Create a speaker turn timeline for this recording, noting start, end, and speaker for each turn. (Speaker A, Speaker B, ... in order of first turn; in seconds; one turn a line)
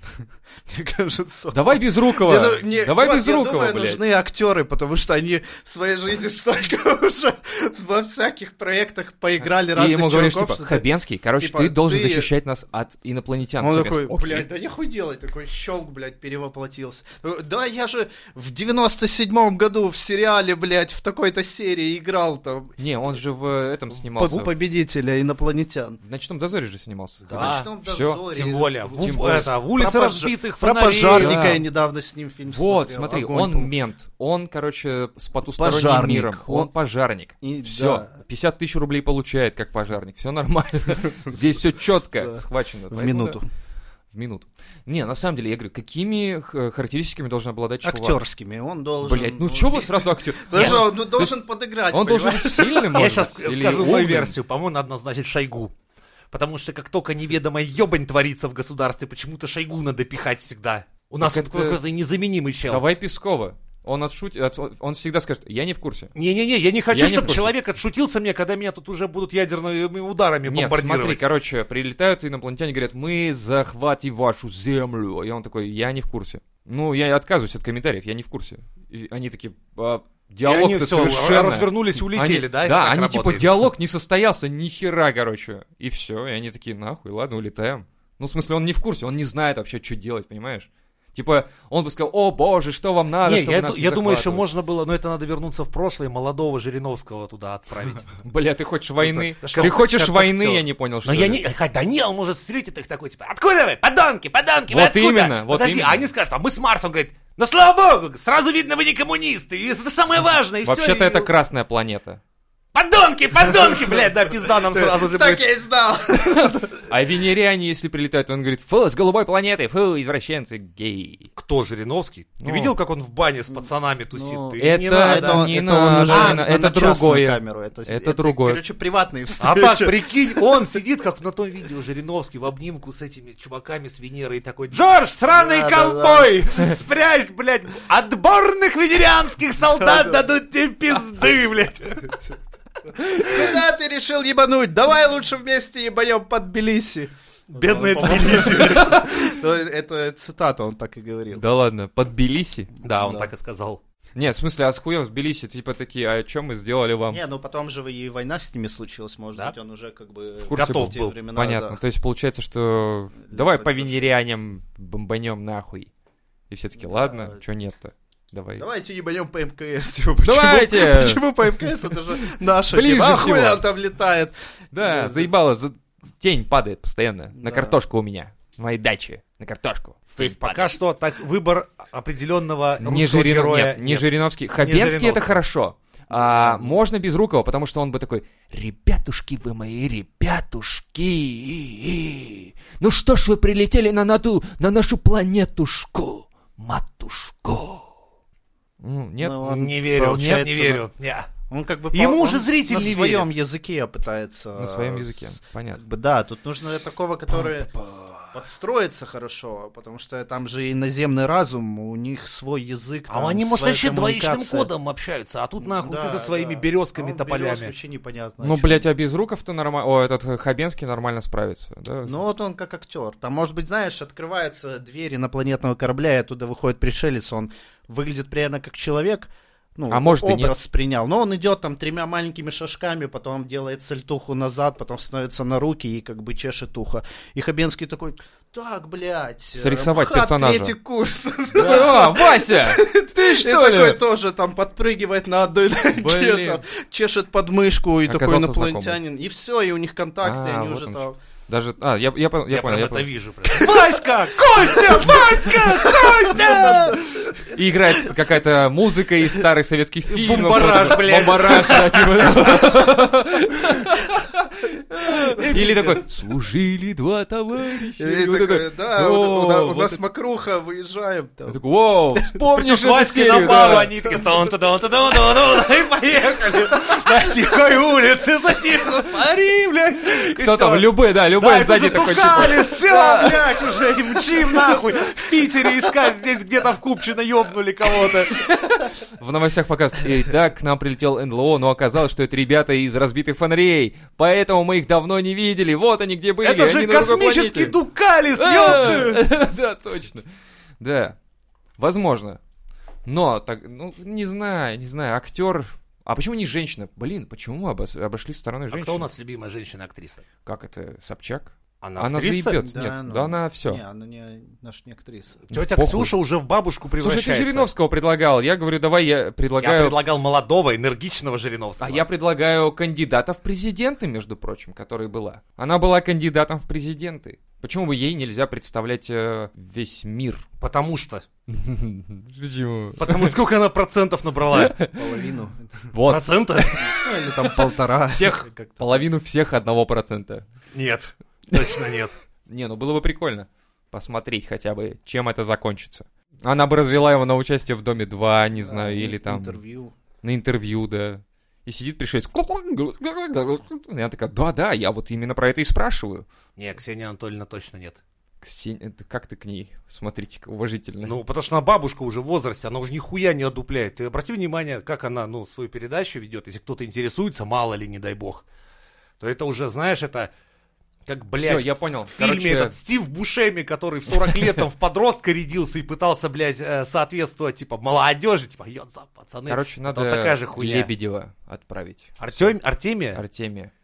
Speaker A: 0.7-10.8
Speaker B: 1.5-4.0
Speaker B: 9.4-14.4
Speaker A: 11.4-12.3
Speaker A: 13.6-22.7
Speaker B: 22.8-24.5
Speaker A: 24.1-26.0
Speaker B: 26.0-28.4
Speaker C: 27.2-27.7
Speaker A: 27.3-33.7
Speaker C: 28.3-31.6
Speaker B: 29.0-29.5
Speaker B: 31.1-31.6
Speaker B: 32.5-43.4
Speaker A: 35.5-36.7
Speaker A: 37.4-38.1
Speaker A: 42.2-43.4
Speaker B: 44.1-48.2
Speaker A: 47.8-53.0
Speaker B: 49.0-54.3
Speaker C: 50.5-50.8
Speaker C: 52.9-55.7
Speaker C: 56.3-62.8
Speaker B: 61.2-61.8
Speaker B: 62.7-66.1
Speaker C: 66.1-71.2
Speaker B: 66.9-67.5
Speaker B: 70.5-94.4
Speaker C: 80.4-83.5
Speaker C: 93.2-98.2
Speaker B: 98.2-101.4
Speaker C: 99.0-111.3
Speaker B: 104.7-106.0
Speaker B: 110.6-112.2
Speaker C: 112.7-115.4
Speaker A: 113.6-116.9
Speaker B: 116.3-121.3
Speaker C: 121.3-125.5
Speaker B: 122.4-122.7
Speaker A: 124.1-130.7
Speaker B: 124.6-128.6
Speaker C: 126.1-126.4
Speaker C: 129.4-142.2
Speaker A: 135.3-136.4
Speaker A: 139.8-140.2
Speaker A: 142.0-151.4
Speaker C: 147.5-149.0
Speaker B: 148.3-149.3
Speaker B: 151.3-152.7
Speaker C: 152.8-153.8
Speaker A: 152.8-153.3
Speaker B: 154.2-157.2
Speaker A: 157.1-161.8
Speaker B: 160.5-165.9
Speaker C: 160.5-161.1
Speaker A: 163.2-164.1
Speaker B: 166.5-168.7
Speaker A: 166.8-167.4
Speaker A: 168.6-175.3
Speaker B: 170.2-173.6
Speaker B: 174.7-180.7
Speaker A: 177.4-177.8
Speaker C: 180.2-184.1
Speaker B: 182.8-197.8
Speaker C: 184.6-185.4
Speaker A: 186.1-186.8
Speaker B: 198.8-199.5
Speaker A: 199.2-200.8
Speaker C: 199.4-201.3
Speaker B: 200.1-200.6
Speaker A: 201.5-207.7
Speaker C: 201.9-203.3
Speaker B: 204.6-205.8
Speaker C: 207.8-208.1
Speaker A: 208.3-214.7
Speaker C: 213.1-217.7
Speaker A: 215.6-218.9
Speaker B: 218.4-222.2
Speaker A: 222.1-251.2
Speaker B: 229.9-230.5
Speaker B: 239.6-240.7
Speaker C: 241.5-242.2
Speaker B: 241.6-244.0
Speaker B: 245.9-246.6
Speaker B: 248.1-249.0
Speaker B: 250.2-253.1
Speaker C: 252.5-257.0
Speaker A: 254.6-257.3
Speaker B: 257.5-270.0
Speaker C: 260.1-262.7
Speaker C: 265.2-266.0
Speaker A: 268.0-271.6
Speaker B: 271.5-273.9
Speaker C: 272.5-288.4
Speaker B: 280.1-283.6
Speaker B: 288.4-297.7
Speaker C: 296.4-299.2
Speaker B: 298.4-300.2
Speaker B: 300.8-301.1
Speaker B: 301.8-302.4
Speaker B: 303.1-309.1
Speaker C: 308.7-310.2
Speaker B: 310.4-313.8
Speaker C: 311.8-312.6
Speaker A: 312.5-315.4
Speaker C: 315.5-317.7
Speaker B: 315.5-316.1
Speaker B: 317.0-320.0
Speaker C: 319.6-322.1
Speaker B: 321.8-330.4
Speaker C: 330.6-331.2
Speaker B: 331.5-333.4
Speaker C: 333.0-334.8
Speaker B: 334.5-335.2
Speaker A: 334.9-335.9
Speaker B: 335.9-340.4
Speaker C: 336.0-336.9
Speaker A: 336.9-339.0
Speaker C: 340.7-342.1
Speaker B: 342.5-349.6
Speaker A: 348.6-349.9
Speaker B: 350.2-356.2
Speaker C: 356.6-358.0
Speaker B: 358.4-361.2
Speaker C: 361.0-368.4
Speaker C: 369.2-370.3
Speaker C: 371.1-380.9
Speaker B: 371.4-372.7
Speaker B: 374.2-374.6
Speaker B: 379.5-382.5
Speaker C: 382.2-383.2
Speaker B: 383.1-383.7